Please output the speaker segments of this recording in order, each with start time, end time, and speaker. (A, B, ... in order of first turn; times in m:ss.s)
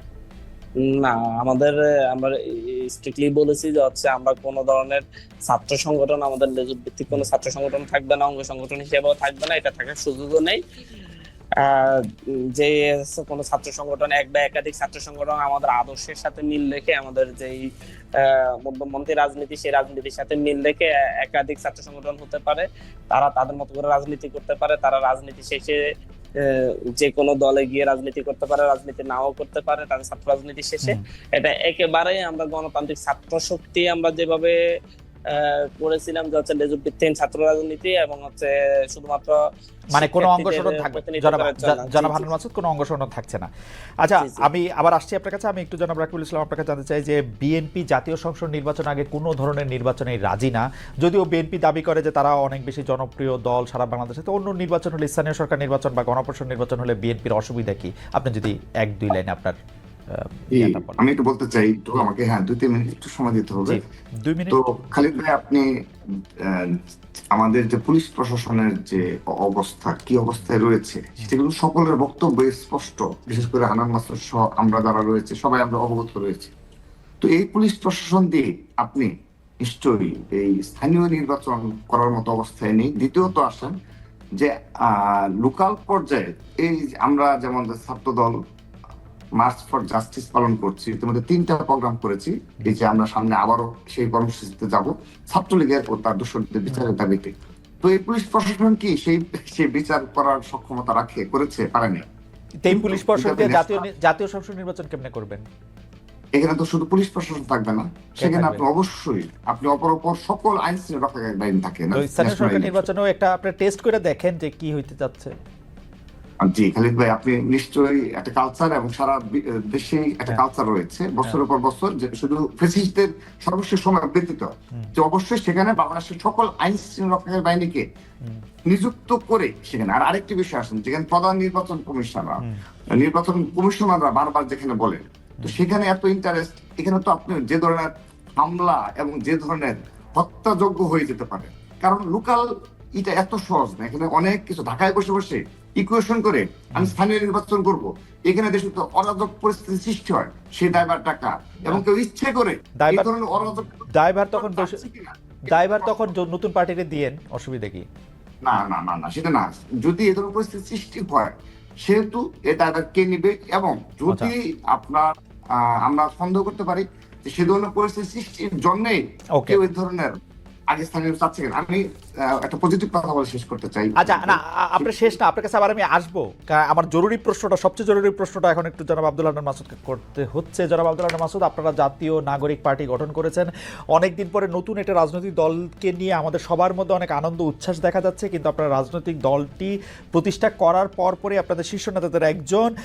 0:00.9-0:10.6 A
0:11.6-0:12.0 A
0:12.5-0:25.8 A
0:26.4-0:34.6 A
0:35.3-0:39.4 A
0:39.9-0:43.5 B
0:40.0-0:42.3 A
0:44.0-0:59.6 B
0:44.2-0:44.5 A
1:00.1-1:01.0 B
1:00.5-1:03.8 C
1:03.6-1:04.6 B
1:04.5-1:05.7 C
1:06.4-1:06.7 C
1:07.3-1:16.5 C
1:17.2-1:19.1 C
1:19.6-1:23.7 C
1:24.4-1:28.4 C
1:29.4-1:42.0 C
1:42.6-1:45.4 B
1:42.7-1:43.9 C
1:46.4-1:52.8 C
1:48.2-1:48.6 B
1:52.0-1:55.3 B
1:56.4-2:07.8 C
2:08.7-2:12.4 C
2:13.0-2:22.4 C
2:23.0-2:36.1 C
2:32.8-2:34.8 B
2:35.5-2:37.8 B
2:38.4-2:41.3 C
2:41.8-2:50.2 C
2:49.4-2:49.6 B
2:50.7-2:55.2 C
2:54.0-3:12.7 B